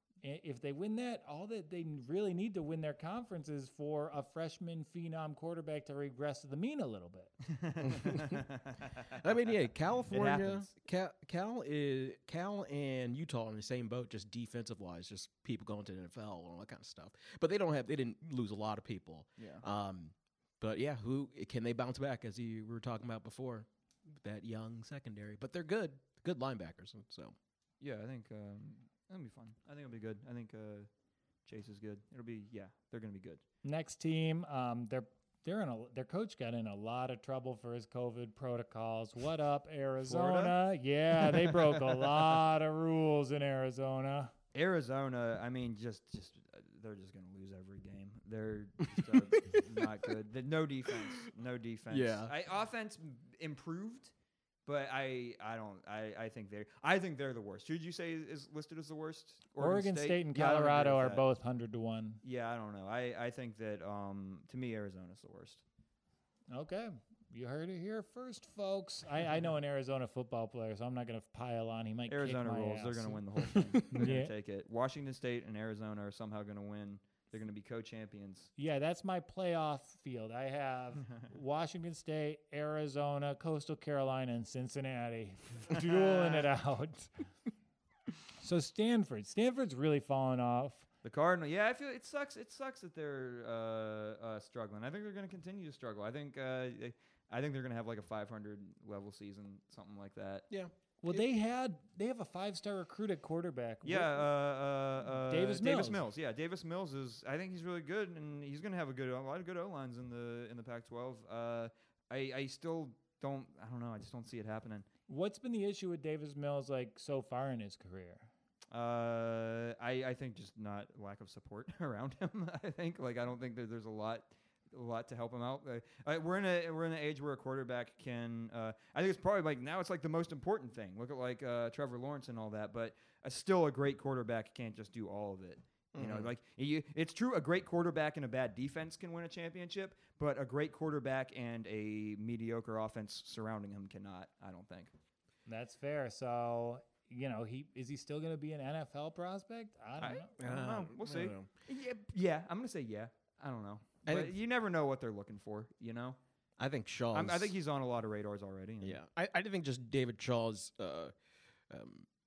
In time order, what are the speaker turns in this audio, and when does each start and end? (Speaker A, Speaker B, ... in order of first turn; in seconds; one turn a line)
Speaker A: 0.2-7.4
Speaker B: 7.5-9.2
Speaker C: 7.8-8.4
Speaker C: 9.1-27.3
Speaker B: 10.1-10.7
Speaker B: 19.4-19.6
Speaker B: 27.8-30.9
Speaker B: 31.4-33.4
Speaker A: 33.6-44.3
Speaker B: 40.0-40.6
Speaker B: 41.2-42.4
Speaker B: 44.5-54.1
Speaker C: 51.9-52.3
Speaker B: 54.6-61.2
Speaker A: 59.6-62.2
Speaker B: 62.2-65.6
Speaker A: 66.5-74.3
Speaker B: 72.1-78.5
Speaker A: 78.6-87.1
Speaker B: 85.8-86.5
Speaker A: 88.4-90.8
Speaker B: 91.0-100.5
Speaker A: 101.0-104.2
Speaker B: 103.8-114.8
Speaker A: 105.2-106.0
Speaker A: 115.1-118.3
Speaker B: 118.7-144.9
Speaker C: 135.9-136.3
Speaker A: 145.5-150.3
Speaker B: 150.0-156.2
Speaker C: 150.4-151.5
Speaker C: 154.1-154.3
Speaker C: 156.6-157.5
Speaker B: 157.1-159.0
Speaker C: 158.8-161.1
Speaker C: 161.7-162.1